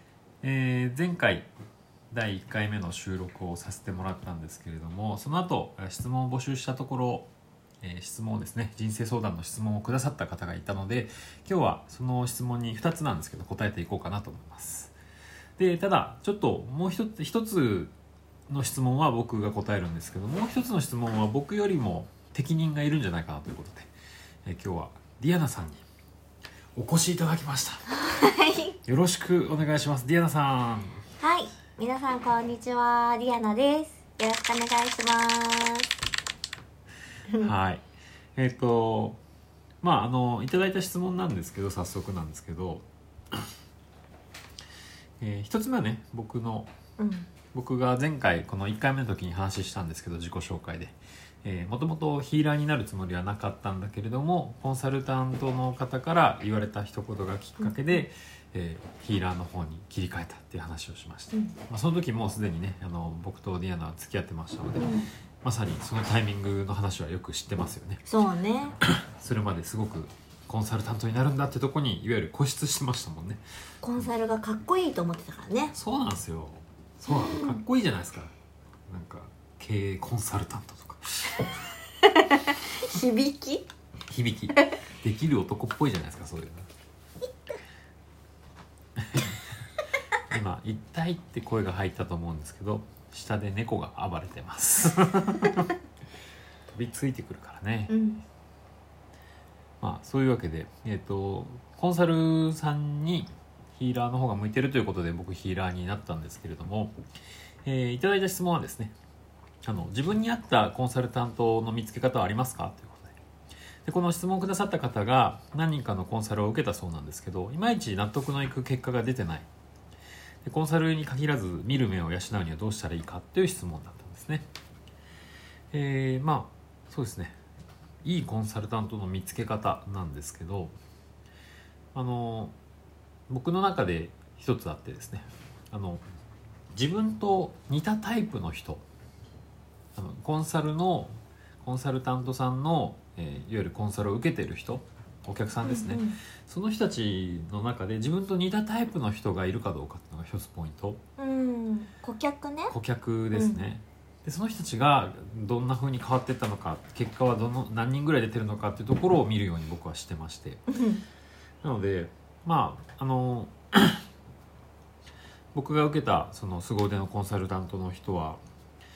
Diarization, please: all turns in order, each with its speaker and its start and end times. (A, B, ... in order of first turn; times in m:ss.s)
0:00.4-0:01.5 A
0:02.1-0:14.9 A
0:15.6-0:17.9 A
0:18.5-0:23.9 A
0:24.4-0:25.8 A
0:26.8-0:27.8 A
0:27.9-0:28.8 B
0:28.9-0:31.0 A
0:31.2-0:35.9 B
0:37.4-0:37.8 A
0:38.4-0:39.2 A
0:39.8-0:43.4 A
0:45.2-0:46.7 A
0:47.0-0:47.3 B
0:47.5-1:04.9 A
0:57.6-0:58.0 B
1:04.8-1:05.1 B
1:05.4-1:08.0 A
1:08.1-1:08.8 B
1:08.8-1:13.4 A
1:13.8-1:15.7 B
1:15.7-1:18.3 A
1:17.1-1:17.6 B
1:18.9-1:21.5 A
1:22.0-1:23.7 B
1:24.1-1:26.7 A
1:29.0-1:29.4 A
1:30.3-1:35.7 A
1:36.7-1:37.9 A
1:37.9-1:38.2 B
1:39.8-1:46.9 A
1:47.6-1:48.9 A
1:49.6-1:53.2 A
1:53.9-1:59.5 A
2:00.4-2:04.5 A
2:05.7-2:07.4 A
2:08.0-2:10.8 A
2:11.9-2:12.5 A
2:13.3-2:16.0 A
2:16.7-2:18.8 A
2:20.0-2:31.0 A
2:25.6-2:26.2 B
2:31.2-2:32.8 B
2:32.7-2:40.6 A
2:33.3-2:33.6 B
2:40.7-2:41.0 B
2:41.6-2:44.0 A
2:45.5-2:48.4 A